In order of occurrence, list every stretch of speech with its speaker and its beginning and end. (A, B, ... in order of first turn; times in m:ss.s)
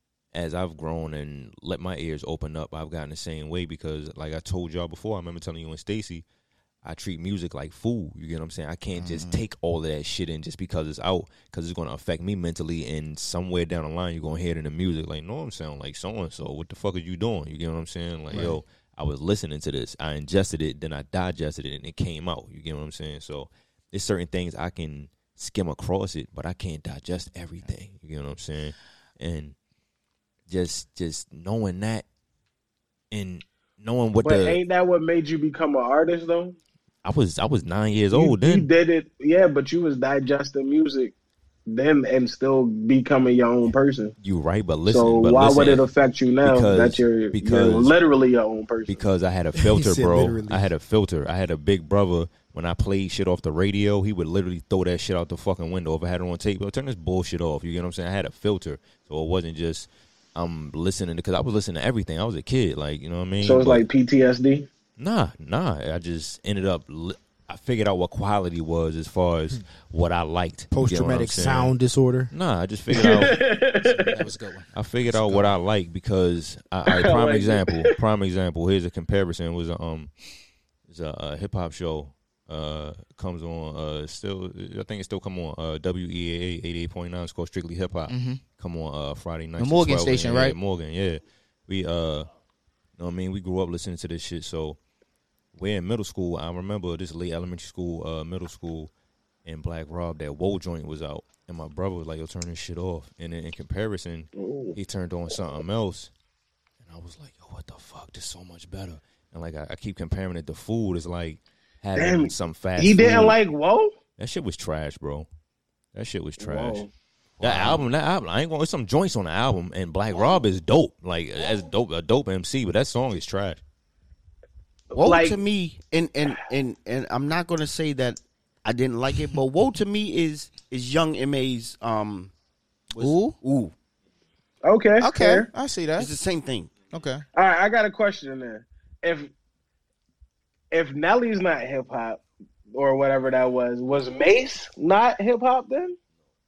0:00.3-0:06.2 A
0:06.8-0:29.5 A
0:08.9-0:09.4 B
0:18.3-0:18.6 B
0:30.5-0:32.0 A
0:33.1-0:34.6 A
0:34.2-0:36.6 C
0:37.0-0:38.7 A
0:38.1-0:41.1 C
0:41.7-0:44.1 C
0:44.2-0:45.9 A
0:44.8-0:49.0 C
0:46.4-0:47.9 A
0:48.8-1:03.8 A
0:49.5-0:50.7 D
1:03.4-1:04.7 C
1:05.0-1:11.7 A
1:10.7-1:12.3 D
1:12.3-1:13.4 A
1:12.9-1:14.2 C
1:13.8-1:15.6 B
1:14.7-1:20.1 A
1:16.8-1:17.9 C
1:20.9-1:32.3 A
1:28.1-1:28.4 B
1:29.6-1:30.6 B
1:33.0-1:34.8 A
1:35.5-1:38.9 A
1:39.4-1:46.1 A
1:44.3-1:44.8 C
1:46.8-1:53.4 A
1:51.9-1:53.9 C
1:54.2-1:55.3 A
1:55.9-1:56.8 A
1:56.4-1:56.9 C
1:57.4-2:03.6 A
2:04.9-2:05.4 C
2:04.9-2:12.3 E
2:12.9-2:13.7 E
2:13.0-2:13.4 B
2:14.6-2:15.5 C
2:15.0-2:16.1 B
2:16.0-2:16.7 E
2:16.9-2:17.2 B
2:17.3-2:19.3 C
2:20.7-2:22.2 C
2:22.7-2:26.0 C